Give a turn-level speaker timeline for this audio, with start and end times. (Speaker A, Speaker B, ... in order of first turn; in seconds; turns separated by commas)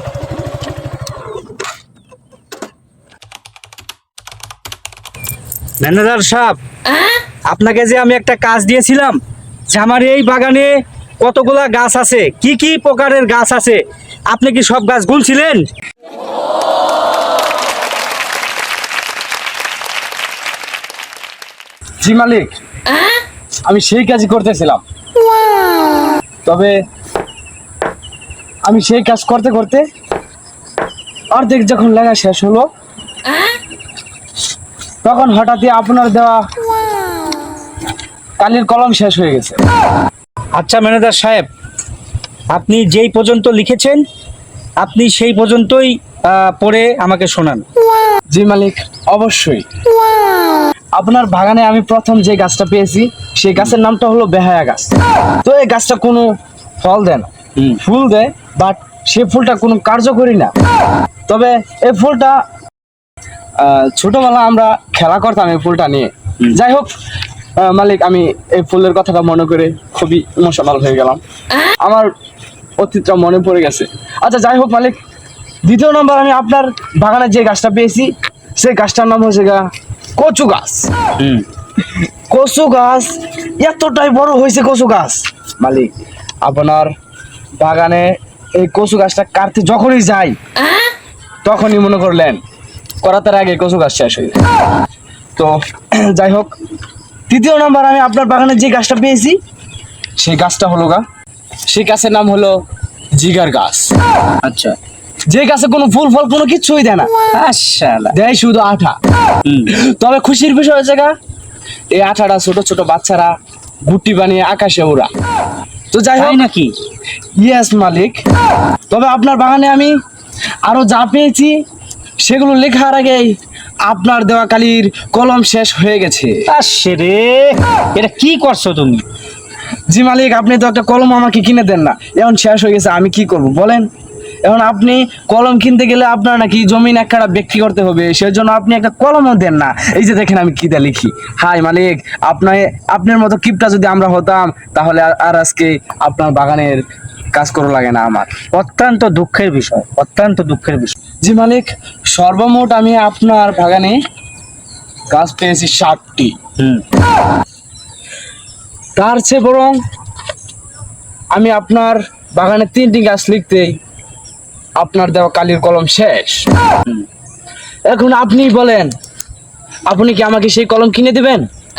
Speaker A: 5.8-6.6, Speaker A: 7.5-9.2, Speaker A: 9.7-15.7, Speaker B: 22.0-22.5, Speaker B: 23.6-24.8, Speaker B: 26.4-26.7, Speaker B: 28.6-29.9, Speaker B: 31.3-32.7, Speaker B: 35.0-36.5, Speaker B: 38.4-39.6, Speaker A: 40.5-41.5, Speaker A: 42.5-44.0, Speaker A: 44.8-47.6, Speaker B: 48.3-49.7, Speaker B: 50.9-56.3, Speaker B: 56.8-60.5, Speaker B: 61.3-62.4, Speaker B: 63.6-66.9, Speaker B: 67.6-71.2, Speaker B: 71.8-72.1, Speaker B: 72.8-75.0, Speaker B: 75.6-79.7, Speaker B: 80.2-80.9, Speaker A: 81.2-81.4, Speaker B: 82.0-86.9, Speaker B: 87.6-90.4, Speaker B: 91.4-92.4, Speaker B: 93.0-94.4, Speaker B: 95.3-96.5, Speaker B: 97.3-99.4, Speaker B: 100.2-101.0, Speaker B: 101.7-102.6, Speaker B: 103.2-103.9, Speaker A: 104.4-104.8, Speaker B: 105.3-107.1, Speaker A: 107.3-108.1, Speaker B: 108.1-109.0, Speaker A: 109.4-109.7, Speaker B: 109.7-111.1, Speaker B: 111.9-113.3, Speaker B: 113.9-115.1, Speaker B: 115.9-116.4, Speaker A: 116.2-116.7, Speaker B: 117.4-118.2, Speaker B: 118.9-119.9, Speaker B: 120.6-121.6, Speaker B: 122.2-126.4, Speaker A: 126.5-129.0, Speaker B: 129.9-133.8, Speaker B: 134.4-146.8, Speaker B: 147.3-148.4, Speaker A: 148.5-151.0, Speaker B: 151.2-154.0, Speaker B: 155.1-156.4, Speaker A: 156.6-156.8, Speaker B: 158.9-159.8, Speaker B: 161.3-163.8, Speaker B: 164.8-166.4, Speaker B: 167.9-168.9, Speaker B: 169.9-171.4